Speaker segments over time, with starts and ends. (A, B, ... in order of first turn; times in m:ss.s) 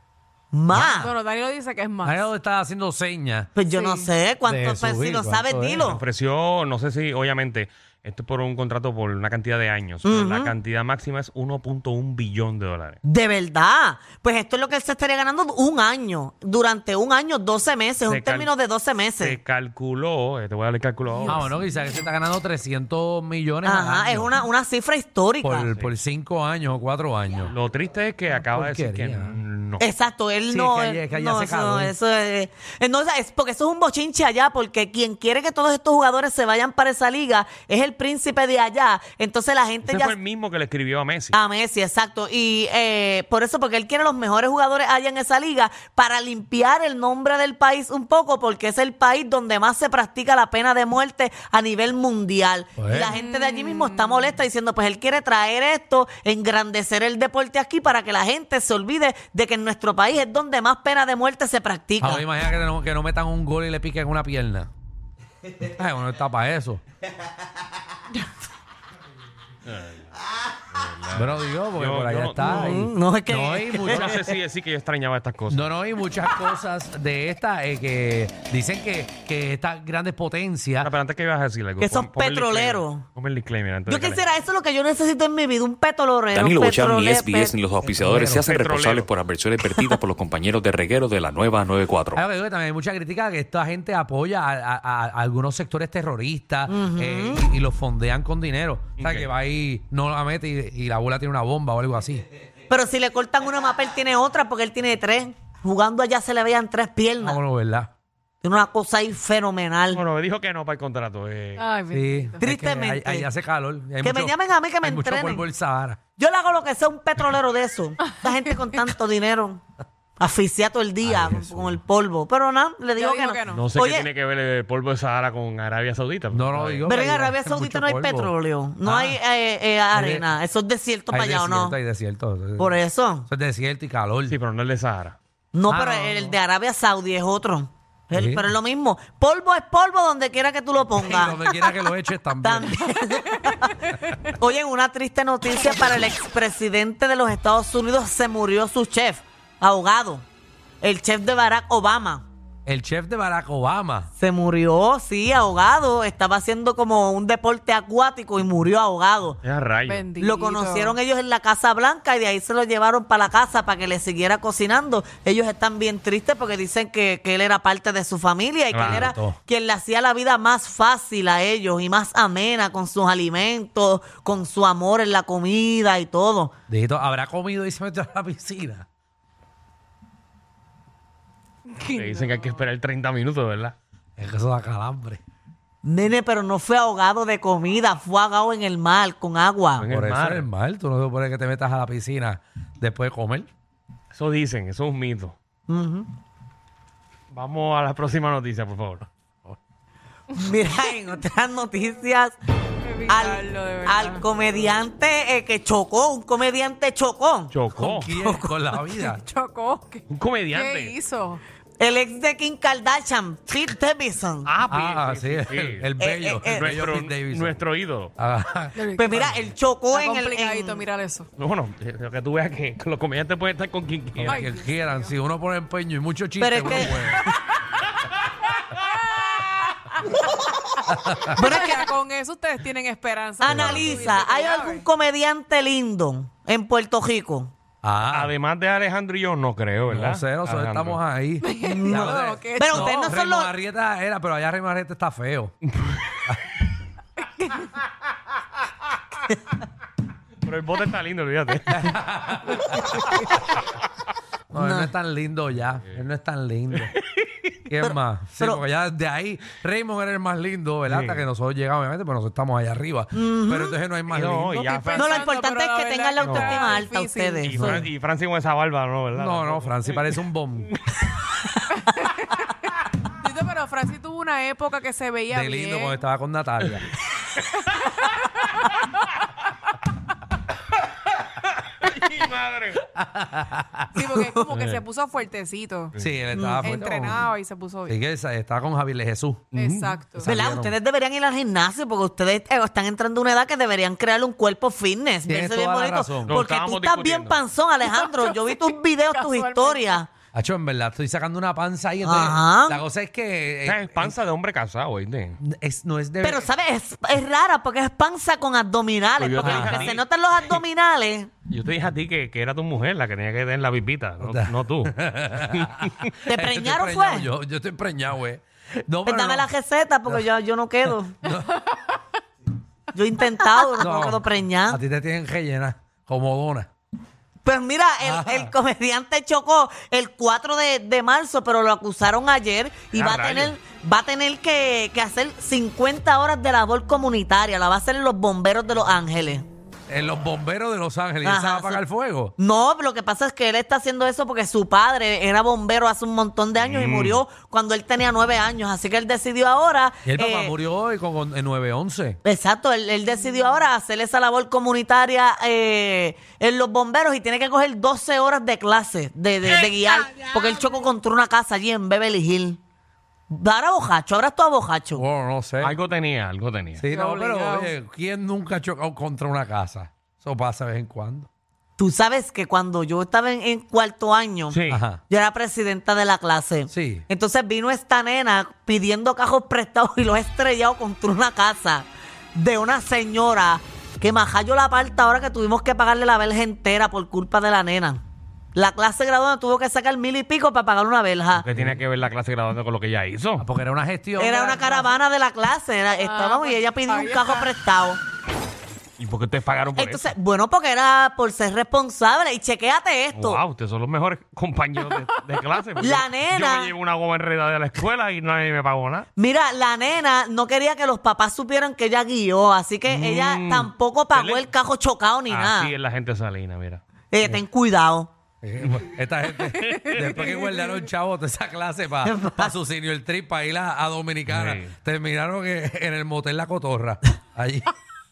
0:00.5-0:01.1 A
0:00.7-0:01.1 B
0:00.7-0:02.3 C
0:02.0-0:03.5 B
0:03.6-0:06.0 A
0:03.7-0:04.1 C
0:04.4-0:05.9 B
0:05.8-0:13.0 D
0:10.0-0:10.6 A
0:13.0-0:19.4 A
0:18.1-0:18.5 D
0:19.2-0:21.5 D
0:21.2-0:24.3 B
0:21.3-0:21.6 C
0:23.6-0:25.7 A
0:25.4-0:27.5 B
0:27.5-0:29.9 D
0:28.4-0:29.3 B
0:29.8-0:40.2 A
0:30.5-0:31.9 B
0:39.8-0:41.4 D
0:41.3-1:02.2 A
0:52.8-0:53.1 B
0:52.9-0:54.3 C
1:02.0-1:04.7 B
1:05.6-1:06.8 B
1:09.7-1:10.1 D
1:10.7-1:12.8 D
1:11.1-1:14.2 B
1:12.4-1:14.2 A
1:13.8-1:15.7 D
1:15.5-1:20.9 B
1:20.8-1:24.2 D
1:21.8-1:23.0 A
1:23.9-1:27.6 A
1:26.3-1:32.2 E
1:27.9-1:28.4 B
1:28.2-1:29.1 D
1:32.1-1:42.2 B
1:36.7-1:37.4 A
1:39.0-1:39.3 D
1:42.7-1:47.4 A
1:47.2-1:47.9 B
1:48.4-1:50.0 A
1:49.9-1:51.6 D
1:51.6-1:52.4 C
1:51.9-1:56.0 B
1:52.4-1:53.3 A
1:54.0-1:55.4 A
1:56.2-1:59.6 A
1:58.0-1:58.2 C
2:00.2-2:04.1 A
2:01.0-2:01.8 B
2:03.0-2:03.6 C
2:03.5-2:06.9 D
2:06.3-2:09.2 B
2:06.8-2:11.8 A
2:09.9-2:10.3 B
2:11.1-2:14.4 B
2:12.6-2:13.3 A
2:14.3-2:15.2 D
2:15.5-2:21.7 A
2:15.7-2:16.4 B
2:18.1-2:18.5 B
2:21.0-2:22.8 B
2:22.4-2:30.2 A
2:30.8-2:32.2 A
2:32.6-2:34.1 B
2:34.2-2:39.4 A
2:39.4-2:40.0 D
2:39.9-2:41.0 C
2:40.2-2:56.6 A
2:48.7-2:49.1 D
2:48.8-2:49.4 B
2:56.7-2:58.9 B
3:01.7-3:02.6 C
3:01.9-3:03.8 D
3:04.2-3:05.2 B
3:05.8-3:09.9 A
3:09.8-3:10.5 D
3:09.9-3:13.5 B
3:14.1-3:15.4 D
3:15.7-3:16.1 A
3:17.3-3:19.1 D
3:20.3-3:22.4 A
3:22.8-3:24.2 C
3:23.1-3:27.5 A
3:27.5-3:28.1 D
3:27.8-3:29.2 B
3:28.1-3:28.5 A
3:29.0-3:31.4 C
3:30.1-3:31.0 D
3:31.8-3:34.5 A
3:34.4-3:35.9 D
3:34.7-3:37.6 B
3:36.0-3:36.8 A
3:36.4-3:38.1 D
3:38.2-3:39.5 B
3:38.8-3:39.3 C
3:39.0-3:40.8 A
3:39.9-3:41.3 C
3:41.4-3:44.4 D
3:44.2-3:47.2 B
3:44.2-3:45.1 C
3:46.4-3:47.1 A
3:48.7-3:50.2 C
3:50.9-3:51.2 B
3:51.2-3:54.8 C
3:51.4-3:51.9 A
3:53.4-3:57.5 A
3:53.4-3:54.1 B
3:57.8-3:58.3 B
3:58.1-4:01.0 D
3:59.9-4:05.5 B
4:01.4-4:03.1 C
4:01.6-4:03.5 A
4:05.8-4:06.1 D
4:07.4-4:07.7 C
4:10.4-4:11.9 D
4:11.7-4:13.0 B
4:14.5-4:16.9 B
4:14.6-4:14.9 A
4:17.7-4:24.7 B
4:17.8-4:18.6 A
4:20.9-4:21.3 D
4:23.1-4:23.8 A
4:24.1-4:25.3 D
4:24.6-4:27.6 C
4:25.0-4:27.9 A
4:26.2-4:26.6 B
4:27.4-4:31.1 D
4:27.6-4:27.9 B
4:29.1-4:30.7 B
4:31.8-4:32.5 C
4:33.2-4:36.0 C
4:35.3-4:36.9 B
4:37.5-4:38.4 C
4:41.8-4:42.8 D
4:43.0-4:43.9 B
4:43.9-4:45.9 C
4:44.0-4:44.2 A
4:44.5-4:44.8 D
4:46.0-4:47.3 B
4:46.3-4:46.8 A
4:46.6-4:48.0 C
4:47.9-4:49.5 B
4:49.5-4:50.0 D
4:49.5-4:50.3 C
4:50.2-4:50.7 B
4:50.2-5:00.1 A
4:55.3-4:56.4 B
4:56.3-4:57.4 D
4:57.9-4:58.6 C
4:59.1-5:00.0 C
5:00.3-5:04.1 B
5:02.0-5:02.8 A
5:03.6-5:05.4 D
5:05.4-5:06.5 B
5:06.2-5:11.3 A
5:09.2-5:10.0 D
5:09.4-5:09.9 B
5:11.5-5:16.1 D
5:14.2-5:19.5 B
5:16.2-5:17.3 A
5:19.0-5:21.2 A
5:20.9-5:21.5 B
5:21.7-5:22.0 C
5:22.9-5:24.8 A
5:23.8-5:26.7 B
5:27.4-5:39.4 A
5:28.0-5:28.5 B
5:32.9-5:33.6 D
5:39.9-5:42.4 B
5:41.2-5:41.8 A
5:42.4-5:50.5 A
5:46.6-5:47.2 D
5:50.0-5:52.2 B
5:52.2-6:02.6 A
6:03.3-6:05.0 A
6:05.0-6:05.8 B
6:05.6-6:06.8 D
6:06.8-6:11.3 B
6:06.9-6:07.7 C
6:11.8-6:28.0 A
6:14.5-6:14.8 D
6:14.7-6:15.0 B
6:16.7-6:17.0 B
6:28.5-6:31.4 A
6:31.4-6:33.5 D
6:31.5-6:31.8 B
6:33.4-6:34.6 B
6:34.2-6:38.0 A
6:34.5-6:34.9 C
6:36.0-6:37.5 C
6:39.0-6:40.2 D
6:39.7-6:43.4 A
6:43.1-6:49.1 D
6:45.8-6:46.7 A
6:49.2-6:55.7 A
6:52.9-6:54.5 D
6:55.3-6:56.8 D
6:57.1-6:58.1 A
6:58.4-7:07.7 B
6:58.6-6:58.9 D
6:59.5-7:00.4 D
7:00.2-7:00.7 C
7:02.0-7:02.5 A
7:04.3-7:04.7 D